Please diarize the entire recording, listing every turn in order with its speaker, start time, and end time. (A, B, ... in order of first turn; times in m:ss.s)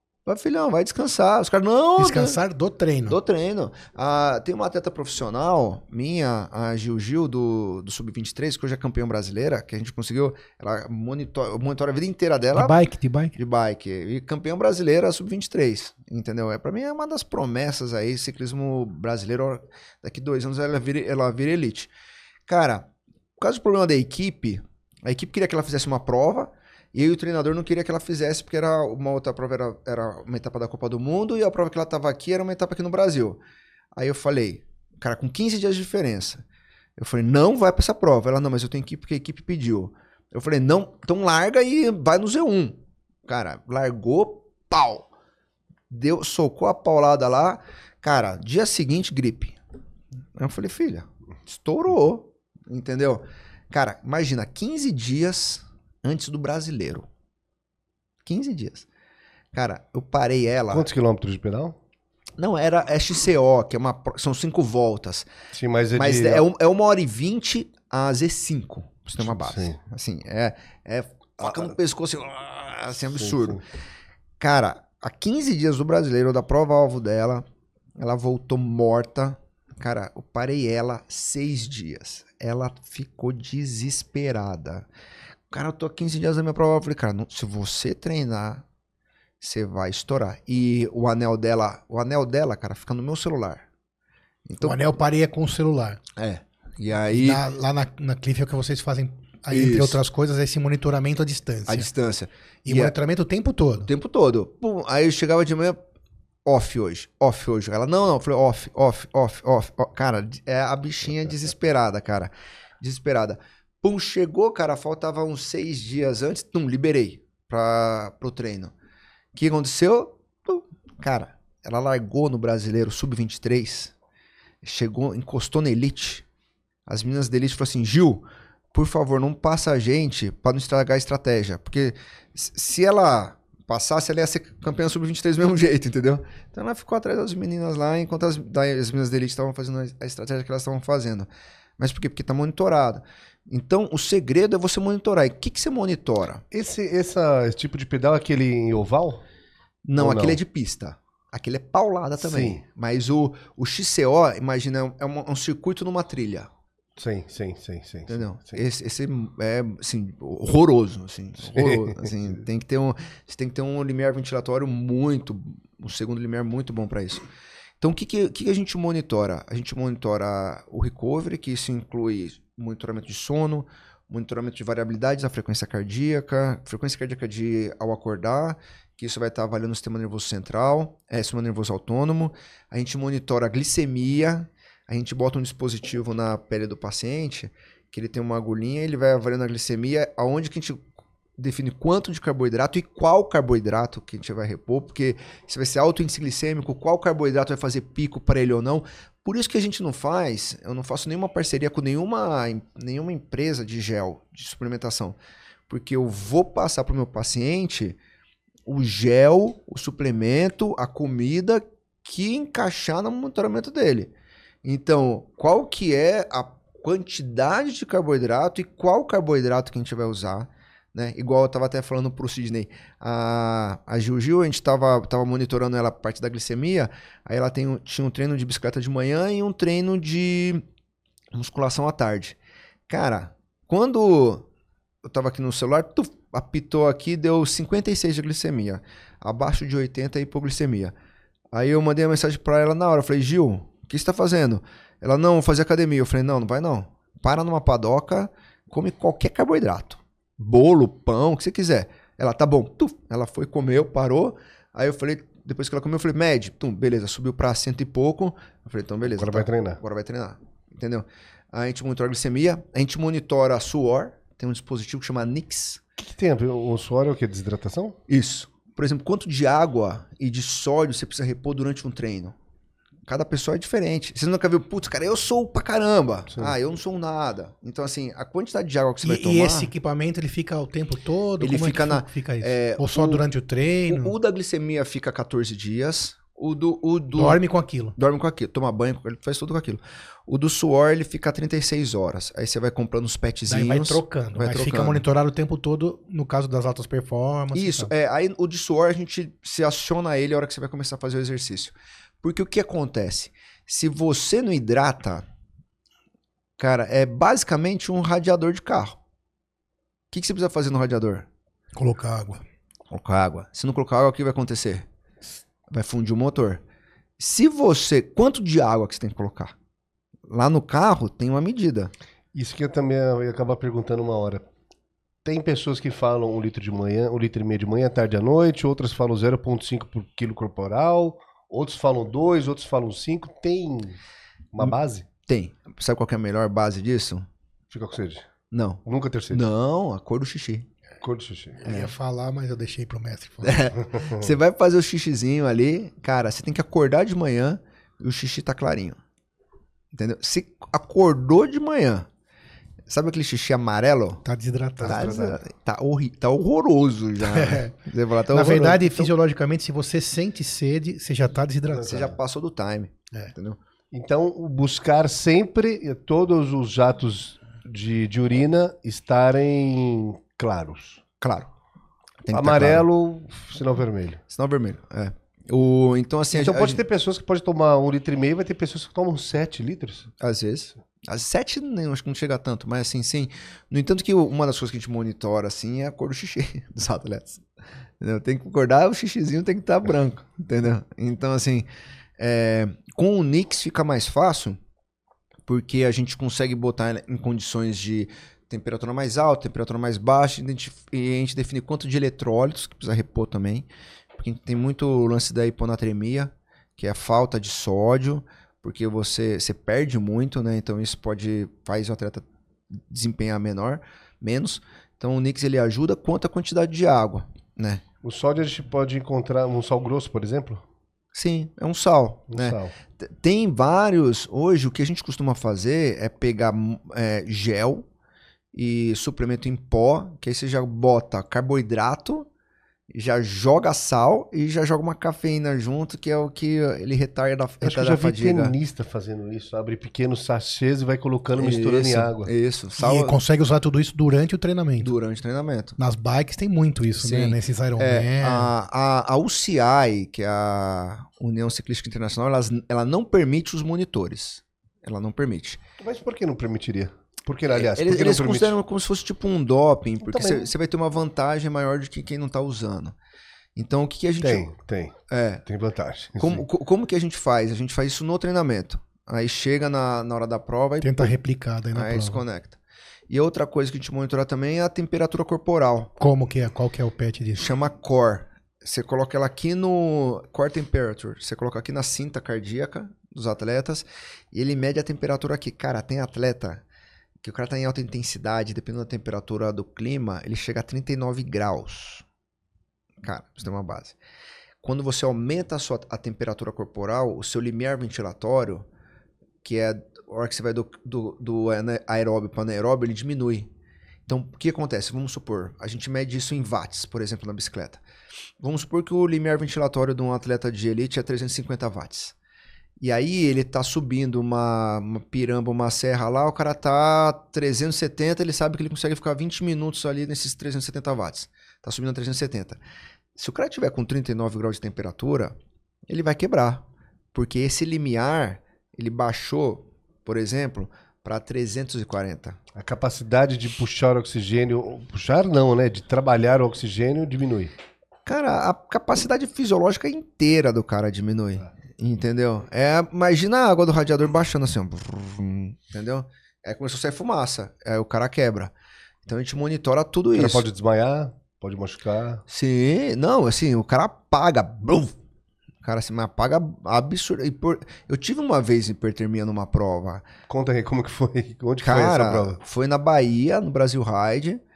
0:00.3-0:02.4 A
0:02.0-0:03.2 B
0:03.1-0:12.8 A
0:12.5-0:13.3 B
0:13.4-0:21.9 A
0:22.5-0:33.4 A
0:34.0-0:36.4 A
0:37.0-0:45.1 A
0:45.9-0:49.6 A
0:50.4-0:57.1 A
0:58.3-0:58.9 A
0:59.5-1:00.9 A
1:00.7-1:01.8 C
1:02.4-1:05.3 A
1:05.5-1:06.5 C
1:06.0-1:13.6 A
1:09.2-1:09.8 C
1:13.2-1:13.6 C
1:14.4-1:17.4 A
1:18.0-1:24.9 A
1:25.5-1:28.6 A
1:29.4-1:33.6 A
1:34.5-1:34.9 A
1:34.6-1:36.0 B
1:36.2-1:37.4 A
1:37.1-1:41.9 B
1:39.5-1:40.0 A
1:41.7-1:42.9 A
1:42.6-1:43.9 B
1:43.8-1:45.8 A
1:46.4-1:58.7 A
1:59.3-2:03.9 A
2:04.6-2:06.2 A
2:06.9-2:26.4 A
2:26.5-2:29.2 C
2:29.8-2:36.5 A
2:30.0-2:30.4 C
2:32.2-2:32.6 C
2:37.0-2:38.6 C
2:38.1-2:47.2 A
2:41.5-2:42.1 C
2:47.8-3:10.8 A
3:11.4-3:25.2 A
3:25.7-3:28.0 A
3:28.7-3:34.1 A
3:34.6-3:50.6 A
3:51.3-3:52.4 A
3:52.9-3:54.5 A
3:55.0-4:00.9 A
4:01.5-4:25.8 A
4:19.0-4:19.8 C
4:26.0-4:28.0 C
4:28.1-4:32.4 A
4:33.1-4:39.7 A
4:36.3-4:36.6 C
4:39.0-4:44.1 B
4:41.4-4:43.2 A
4:43.9-4:47.4 A
4:47.2-4:48.0 B
4:48.0-4:55.0 A
4:53.5-4:57.9 B
4:57.5-5:05.2 A
5:06.6-5:09.0 A
5:10.1-5:11.3 A
5:11.8-5:12.4 B
5:12.9-5:14.9 A
5:15.7-5:16.6 A
5:17.2-5:19.5 A
5:20.3-5:21.9 A
5:22.3-5:24.5 C
5:25.2-5:34.0 C
5:34.5-5:35.1 C
5:35.3-5:37.3 A
5:37.7-5:38.3 C
5:38.5-5:40.7 A
5:38.8-5:39.5 C
5:41.0-5:41.6 C
5:41.6-5:43.6 B
5:41.7-5:41.9 A
5:43.4-5:49.0 A
5:44.0-5:44.3 C
5:49.9-5:52.1 A
5:52.9-5:54.2 A
5:54.2-5:55.1 B
5:54.8-5:55.4 C
5:54.8-5:59.1 A
5:57.2-5:57.7 B
5:58.3-6:02.0 B
6:01.9-6:03.6 A
6:03.9-6:11.0 C
6:11.2-6:11.5 A
6:12.2-6:12.9 A
6:12.3-6:14.2 C
6:14.3-6:16.8 A
6:16.3-6:20.1 C
6:20.2-6:27.4 A
6:28.0-6:31.7 A
6:32.2-6:34.6 A
6:35.5-6:52.2 A
6:52.8-6:57.8 A
6:58.0-7:00.6 C
7:01.1-7:07.9 A
7:02.3-7:02.7 C
7:08.5-7:12.3 A
7:12.9-7:18.5 A
7:17.6-7:22.3 C
7:21.4-7:23.2 A
7:22.8-7:24.9 B
7:24.8-7:25.8 A
7:25.8-7:28.5 B
7:27.0-7:35.6 A
7:35.8-7:38.6 C
7:37.5-7:43.0 A
7:40.0-7:40.5 C
7:43.6-7:44.5 A
7:44.2-7:46.4 C
7:45.1-7:45.4 A
7:46.2-7:51.1 A
7:50.8-7:52.2 B
7:51.7-7:52.6 A
7:53.1-7:55.9 A
7:56.0-7:57.5 B
7:57.4-8:06.6 A
8:07.2-8:12.0 A
8:13.0-8:14.0 A
8:14.6-8:18.7 A
8:19.4-8:23.5 A
8:24.1-8:27.8 A
8:28.4-8:32.1 A
8:32.8-8:42.6 A
8:43.2-8:45.4 A
8:45.9-8:52.4 A
8:52.6-8:57.5 C
8:58.1-9:08.5 A
9:09.0-9:10.5 A
9:10.1-9:12.2 C
9:12.3-9:15.0 A
9:15.6-9:20.1 A
9:20.3-9:22.4 C
9:21.6-9:24.4 A